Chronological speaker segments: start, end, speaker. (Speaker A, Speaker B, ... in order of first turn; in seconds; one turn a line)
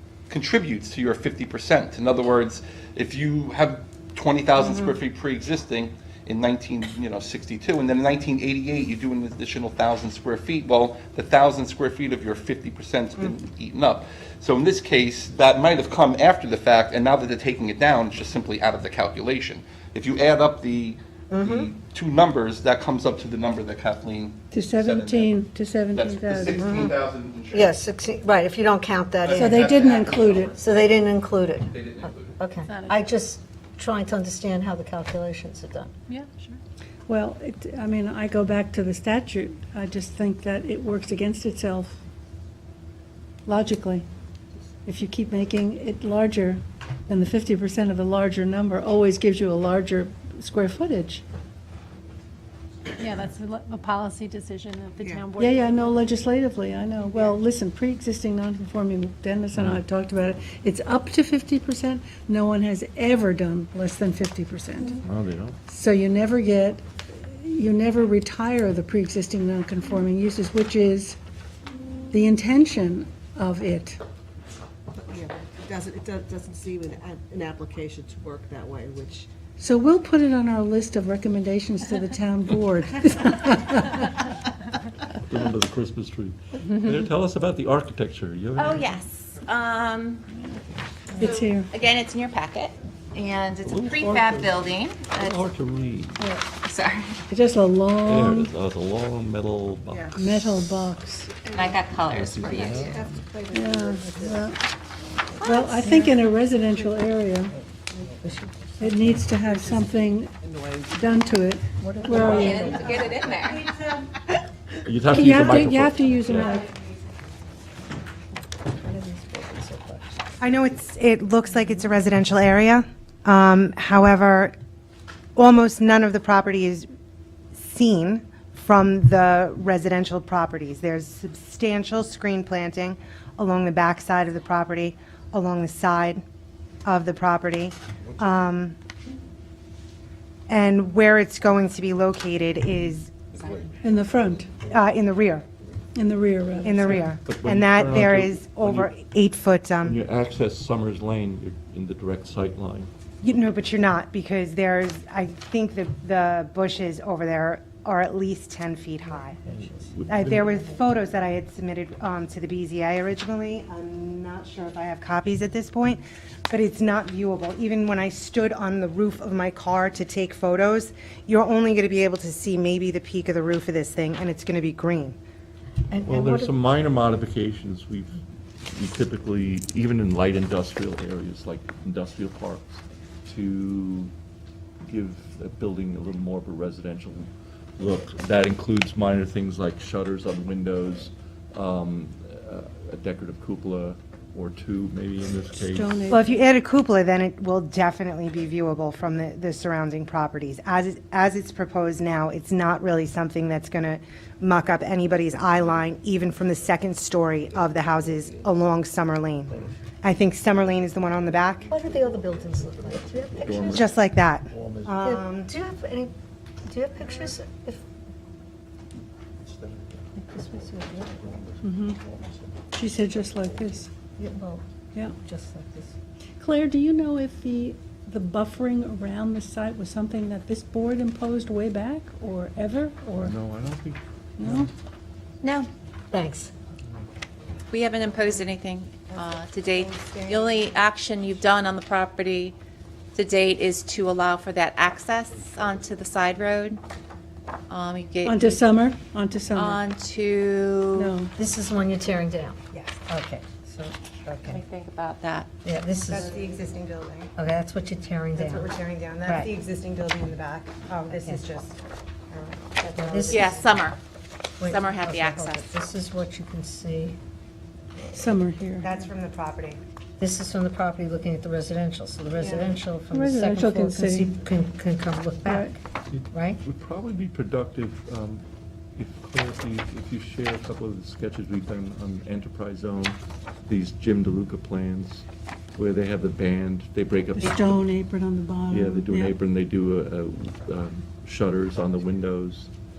Speaker A: 0.3-25.4
Speaker B: 21.3-21.7
Speaker C: 24.5-26.6
Speaker A: 25.9-27.8
Speaker B: 26.6-26.9
Speaker B: 27.5-29.7
Speaker A: 29.2-30.9
Speaker C: 29.3-30.6
Speaker B: 30.6-35.9
Speaker A: 31.7-32.4
Speaker D: 36.1-36.4
Speaker C: 37.1-42.0
Speaker C: 43.5-44.1
Speaker C: 44.9-51.2
Speaker D: 53.0-55.9
Speaker E: 55.0-55.9
Speaker C: 55.0-65.0
Speaker F: 59.5-59.8
Speaker F: 65.0-65.6
Speaker C: 65.7-71.2
Speaker C: 72.1-74.0
Speaker E: 75.0-79.3
Speaker C: 79.6-84.1
Speaker F: 85.3-89.0
Speaker G: 88.6-90.2
Speaker C: 91.2-91.7
Speaker G: 91.2-95.4
Speaker F: 93.6-96.3
Speaker C: 96.2-96.4
Speaker G: 96.6-97.2
Speaker C: 97.3-98.5
Speaker F: 98.0-100.7
Speaker E: 99.9-100.2
Speaker C: 100.2-101.4
Speaker G: 101.5-103.0
Speaker F: 102.1-103.2
Speaker E: 102.9-104.4
Speaker C: 103.5-104.6
Speaker G: 105.4-106.1
Speaker C: 105.4-107.5
Speaker B: 107.5-109.4
Speaker C: 108.8-110.3
Speaker E: 109.5-109.8
Speaker E: 110.5-110.8
Speaker C: 110.9-112.7
Speaker B: 111.8-113.1
Speaker G: 112.2-113.6
Speaker H: 112.6-113.5
Speaker F: 114.8-116.6
Speaker C: 115.1-116.7
Speaker B: 118.8-120.2
Speaker H: 120.4-124.5
Speaker H: 125.4-126.9
Speaker H: 127.5-136.2
Speaker H: 136.8-138.8
Speaker H: 140.5-143.3
Speaker C: 143.8-144.5
Speaker H: 144.6-145.5
Speaker C: 145.9-147.1
Speaker H: 146.6-150.0
Speaker F: 146.9-148.9
Speaker F: 149.8-152.9
Speaker H: 153.2-159.4
Speaker B: 159.5-159.9
Speaker F: 159.6-160.4
Speaker H: 160.1-175.2
Speaker B: 175.9-176.5
Speaker F: 176.1-184.1
Speaker F: 184.8-196.0
Speaker C: 195.7-196.3
Speaker H: 196.1-211.8
Speaker B: 211.7-213.9
Speaker F: 213.4-213.8
Speaker H: 213.6-215.5
Speaker B: 215.0-216.1
Speaker B: 216.7-217.8
Speaker B: 220.2-221.4
Speaker C: 221.6-222.0
Speaker C: 222.7-223.9
Speaker B: 224.2-225.9
Speaker C: 226.4-233.4
Speaker F: 233.2-234.7
Speaker C: 234.4-234.7
Speaker G: 235.4-235.7
Speaker B: 236.1-236.5
Speaker G: 237.7-242.6
Speaker G: 243.1-246.8
Speaker G: 247.7-248.7
Speaker C: 248.2-249.8
Speaker G: 249.5-251.1
Speaker C: 250.9-251.3
Speaker B: 251.3-254.6
Speaker H: 252.7-253.0
Speaker G: 254.4-255.5
Speaker B: 255.6-256.3
Speaker H: 256.0-257.3
Speaker B: 257.4-258.7
Speaker H: 258.3-261.8
Speaker B: 259.3-259.5
Speaker B: 261.1-261.4
Speaker H: 262.3-263.7
Speaker B: 262.8-263.7
Speaker G: 263.3-264.0
Speaker B: 264.6-267.2
Speaker G: 264.6-265.7
Speaker C: 268.1-268.9
Speaker H: 268.8-269.8
Speaker B: 270.2-275.8
Speaker H: 272.4-272.7
Speaker C: 273.1-274.3
Speaker C: 275.4-275.8
Speaker F: 276.1-278.4
Speaker B: 276.3-276.6
Speaker F: 279.0-285.3
Speaker F: 285.8-287.9
Speaker C: 287.4-289.4
Speaker F: 288.7-292.7